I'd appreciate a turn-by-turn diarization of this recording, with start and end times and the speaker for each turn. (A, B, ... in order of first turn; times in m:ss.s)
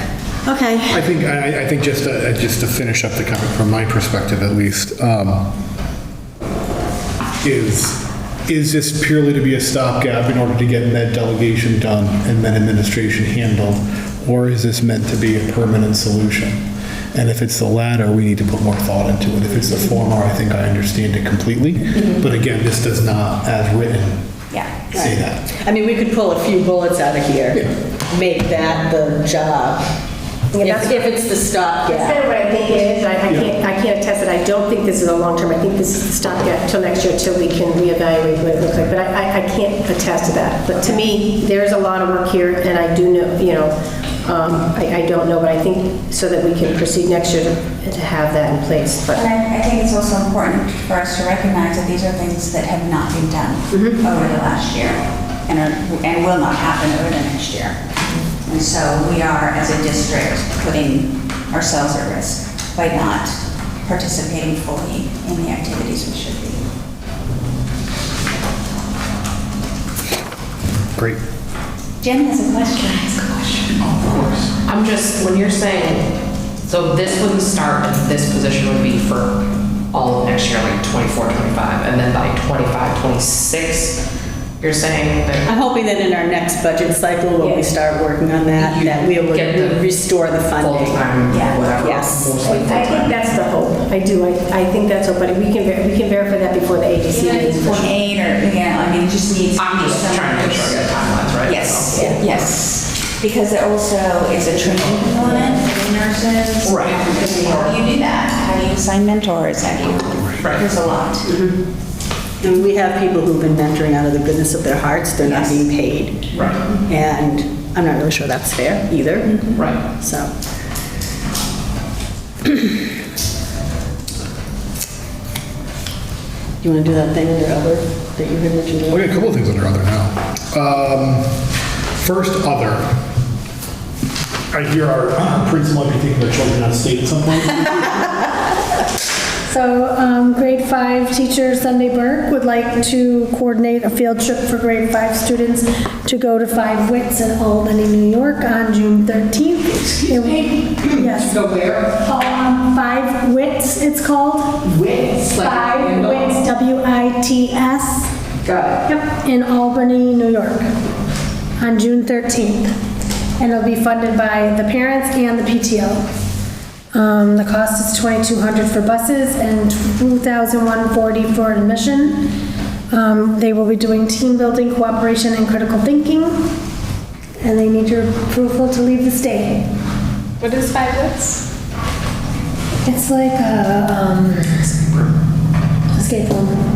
0:00.4-0:01.0 A
0:00.9-0:05.5 B
0:07.4-0:24.2 B
0:24.9-0:25.4 B
0:24.9-0:29.8 A
0:30.5-0:32.3 A
0:30.5-0:31.0 C
0:31.9-0:49.3 C
0:33.3-0:33.6 B
0:49.1-0:57.8 D
0:53.7-0:54.0 A
0:58.4-1:03.3 D
1:03.9-1:06.6 D
1:10.9-1:11.2 B
1:12.0-1:13.5 D
1:13.8-1:14.5 B
1:14.6-1:16.1 E
1:16.6-1:19.4 E
1:19.9-1:24.0 E
1:24.6-1:25.5 E
1:25.4-1:31.1 A
1:28.6-1:29.9 E
1:30.6-1:33.2 E
1:31.3-1:31.7 D
1:31.8-1:32.5 A
1:32.4-1:37.9 C
1:37.1-1:40.8 D
1:39.6-1:42.5 E
1:41.4-1:51.3 D
1:41.9-1:42.2 A
1:46.6-1:47.1 E
1:50.4-1:50.7 E
1:51.3-1:51.5 A
1:52.4-1:56.2 A
1:55.2-1:55.6 D
1:56.3-1:56.6 E
1:56.8-2:00.3 A
1:59.5-1:59.8 E
2:06.6-2:09.2 A
2:08.9-2:12.9 B
2:14.5-2:18.3 B
2:19.5-2:34.7 F
2:30.1-2:31.8 E
2:34.6-2:36.3 E
2:35.3-2:38.1 F
2:38.4-2:38.8 E
2:38.8-2:40.7 F
2:41.6-2:42.7 F
2:43.4-2:46.0 F
2:46.9-2:52.3 F
2:52.9-2:56.3 F
2:57.4-2:59.6 F
3:02.8-3:04.7 F
3:04.7-3:05.1 E
3:05.9-3:06.6 F